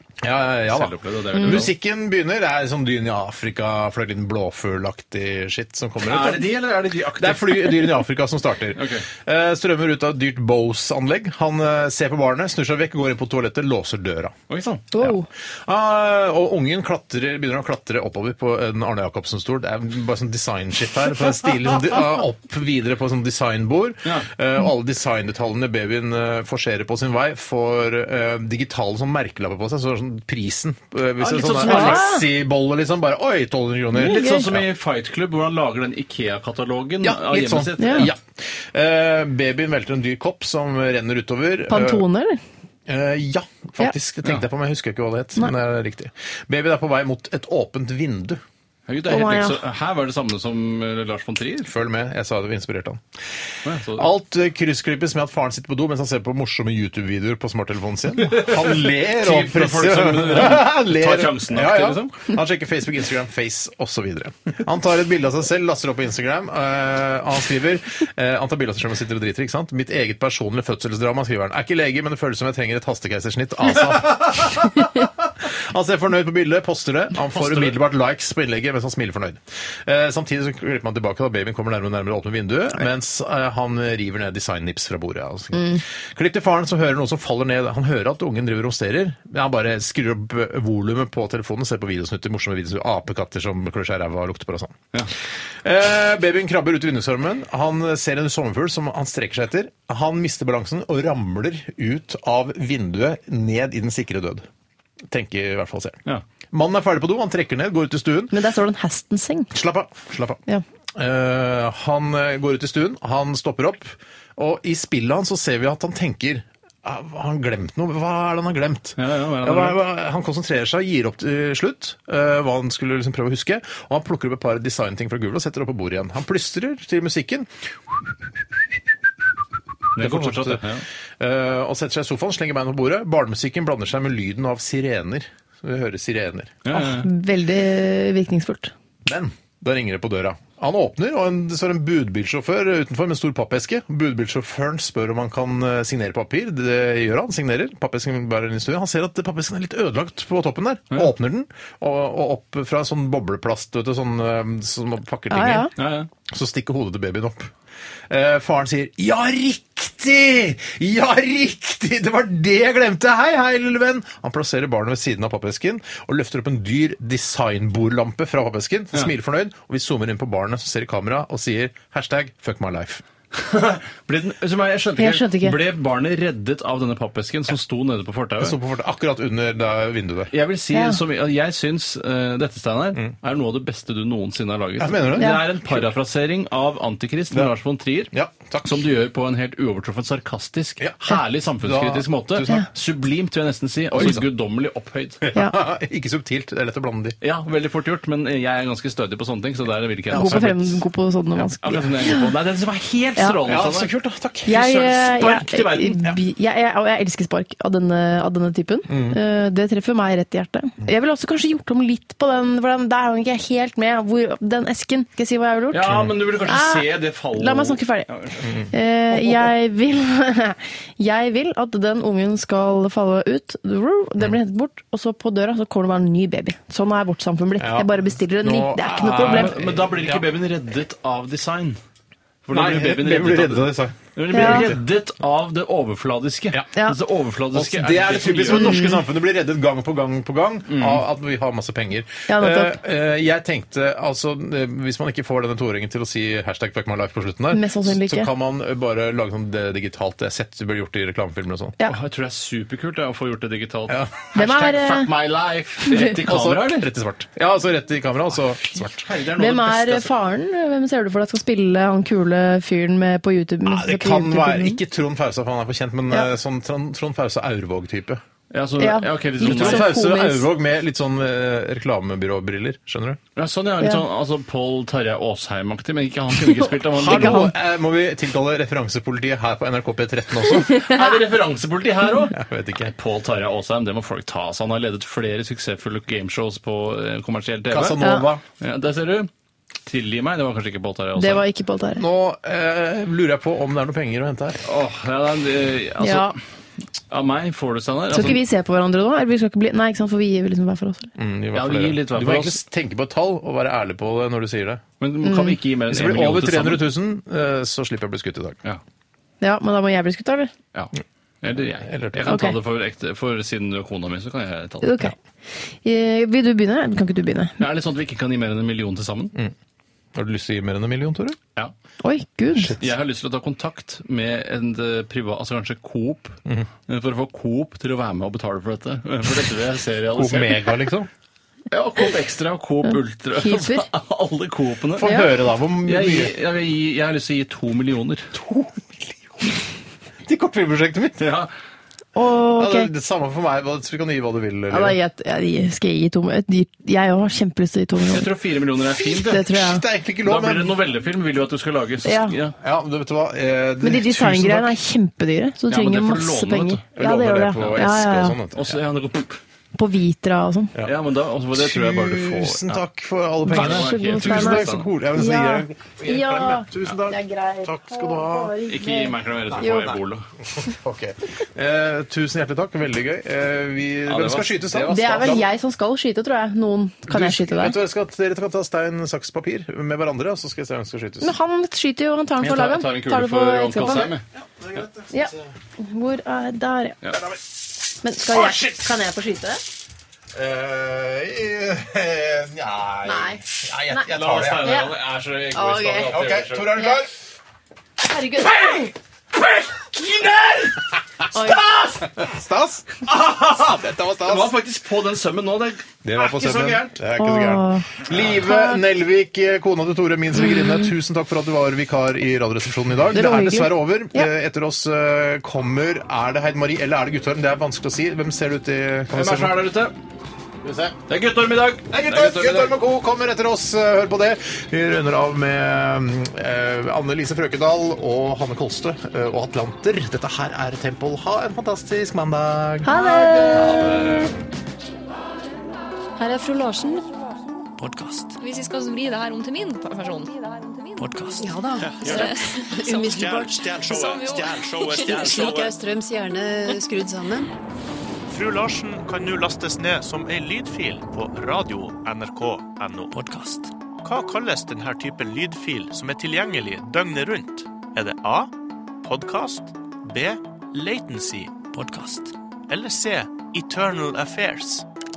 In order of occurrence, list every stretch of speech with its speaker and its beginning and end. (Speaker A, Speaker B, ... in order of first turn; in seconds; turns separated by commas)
Speaker A: 0.2-6.6, Speaker B: 0.7-1.7, Speaker C: 1.4-1.6, Speaker B: 6.0-7.9, Speaker A: 7.1-14.3, Speaker B: 8.8-9.1, Speaker B: 14.5-15.1, Speaker C: 14.9-15.3, Speaker A: 15.7-34.6, Speaker C: 31.2-32.2, Speaker B: 31.6-32.0, Speaker B: 33.9-38.1, Speaker C: 34.1-34.4, Speaker A: 37.0-42.0, Speaker C: 37.8-38.1, Speaker C: 41.7-42.4, Speaker A: 42.9-48.4, Speaker B: 48.9-51.7, Speaker C: 49.1-49.5, Speaker A: 51.6-53.0, Speaker B: 53.6-54.1, Speaker A: 54.0-94.8, Speaker B: 58.3-62.1, Speaker B: 77.3-77.7, Speaker C: 85.5-85.8, Speaker A: 95.6-104.4, Speaker A: 105.1-108.3, Speaker C: 108.3-109.5, Speaker A: 109.5-110.4, Speaker A: 111.0-127.5, Speaker B: 119.0-119.8, Speaker B: 129.9-130.8, Speaker A: 129.9-130.6, Speaker A: 131.2-136.7, Speaker B: 136.6-137.1, Speaker C: 136.7-138.7, Speaker A: 139.0-155.7, Speaker C: 155.3-155.7, Speaker B: 155.8-156.1, Speaker A: 156.3-157.5, Speaker A: 158.1-173.0, Speaker B: 173.3-178.6, Speaker C: 175.0-175.6, Speaker A: 178.4-180.3, Speaker B: 180.3-188.1, Speaker C: 180.7-181.0, Speaker A: 184.8-185.9, Speaker C: 185.2-185.4, Speaker A: 188.1-188.8, Speaker B: 188.6-195.3, Speaker A: 190.8-192.7, Speaker A: 193.9-194.3, Speaker A: 195.2-197.2, Speaker B: 197.2-200.8, Speaker C: 200.1-202.2, Speaker B: 201.4-203.9, Speaker A: 203.4-205.1, Speaker C: 204.4-218.1, Speaker B: 204.6-206.0, Speaker A: 208.9-209.2, Speaker B: 215.7-218.6, Speaker C: 218.7-229.5, Speaker A: 227.6-230.3, Speaker B: 229.1-231.8, Speaker B: 232.4-238.8, Speaker A: 232.5-234.8, Speaker C: 234.3-234.7, Speaker A: 237.5-251.8, Speaker C: 238.5-239.0, Speaker B: 240.7-241.0, Speaker C: 242.3-242.8, Speaker C: 247.5-248.3, Speaker B: 251.8-256.9, Speaker A: 253.9-254.3, Speaker C: 254.3-255.1, Speaker A: 256.0-259.0, Speaker B: 258.7-260.1, Speaker C: 259.4-264.8, Speaker A: 263.6-268.2, Speaker B: 268.5-269.9, Speaker C: 268.8-270.5, Speaker A: 269.4-273.2, Speaker B: 273.3-277.5, Speaker A: 276.9-280.9, Speaker C: 277.0-277.5, Speaker B: 280.7-288.0, Speaker A: 282.3-282.9, Speaker A: 287.7-288.4, Speaker C: 288.0-288.2, Speaker B: 288.6-289.3, Speaker B: 289.9-291.4, Speaker C: 291.2-292.0, Speaker A: 291.9-294.6, Speaker B: 294.6-296.3, Speaker C: 296.0-296.3, Speaker B: 297.1-298.4, Speaker C: 298.1-301.1, Speaker A: 301.2-304.8, Speaker B: 301.5-302.6, Speaker B: 305.0-306.9, Speaker C: 305.2-305.6, Speaker A: 305.9-308.6, Speaker C: 309.4-310.5, Speaker B: 310.7-315.1, Speaker A: 311.8-312.4, Speaker C: 312.3-312.6, Speaker C: 314.8-315.1, Speaker C: 315.8-317.5, Speaker B: 317.6-319.3, Speaker A: 320.1-321.4, Speaker C: 322.0-322.8, Speaker B: 322.8-330.6, Speaker A: 330.1-331.1, Speaker B: 331.7-335.1, Speaker C: 333.4-333.9, Speaker A: 334.9-336.3, Speaker B: 335.9-338.3, Speaker A: 338.3-339.5, Speaker A: 340.2-341.3, Speaker B: 341.2-341.5, Speaker C: 342.1-342.9, Speaker A: 342.5-345.0, Speaker C: 344.7-348.2, Speaker B: 348.1-349.5, Speaker A: 348.9-350.8, Speaker C: 349.3-349.8, Speaker B: 350.2-352.6, Speaker C: 352.0-352.3, Speaker A: 352.6-354.8, Speaker C: 353.8-358.4, Speaker B: 355.7-356.8, Speaker A: 356.9-358.8, Speaker B: 358.6-359.4, Speaker C: 359.8-360.7, Speaker B: 360.8-362.8, Speaker A: 361.5-368.6, Speaker C: 363.4-369.9, Speaker B: 363.5-364.9, Speaker B: 368.6-370.2, Speaker A: 369.5-370.0, Speaker A: 370.6-375.4, Speaker B: 374.1-375.4, Speaker C: 374.9-377.8, Speaker A: 377.1-381.3, Speaker C: 381.2-384.1, Speaker B: 382.4-384.2, Speaker A: 384.3-385.5, Speaker C: 385.1-387.0, Speaker A: 387.1-387.4, Speaker C: 388.0-389.6, Speaker A: 388.3-388.9, Speaker A: 390.3-394.8, Speaker C: 393.0-393.4, Speaker B: 394.1-396.9, Speaker C: 394.6-394.9, Speaker C: 395.5-396.1, Speaker A: 396.0-397.1, Speaker C: 398.0-398.9, Speaker B: 398.4-400.8, Speaker C: 401.3-401.6, Speaker A: 401.3-404.5, Speaker B: 401.4-401.9, Speaker B: 403.1-407.0, Speaker A: 406.0-419.7, Speaker C: 407.2-407.9, Speaker C: 408.4-408.8, Speaker C: 410.4-410.9, Speaker C: 413.1-414.3, Speaker B: 419.1-419.9, Speaker A: 420.6-421.0, Speaker B: 421.1-422.8, Speaker A: 421.9-433.0, Speaker C: 432.8-434.2, Speaker A: 433.5-434.2, Speaker C: 436.2-437.0, Speaker D: 437.8-438.4, Speaker E: 438.4-440.3, Speaker D: 441.0-441.5, Speaker F: 441.4-443.7, Speaker G: 441.8-442.4, Speaker E: 442.0-443.2, Speaker G: 443.0-445.7, Speaker E: 443.8-445.4, Speaker F: 444.9-447.5, Speaker G: 448.3-453.1, Speaker D: 453.1-453.7, Speaker G: 454.0-461.6, Speaker D: 461.7-462.3, Speaker G: 462.7-464.8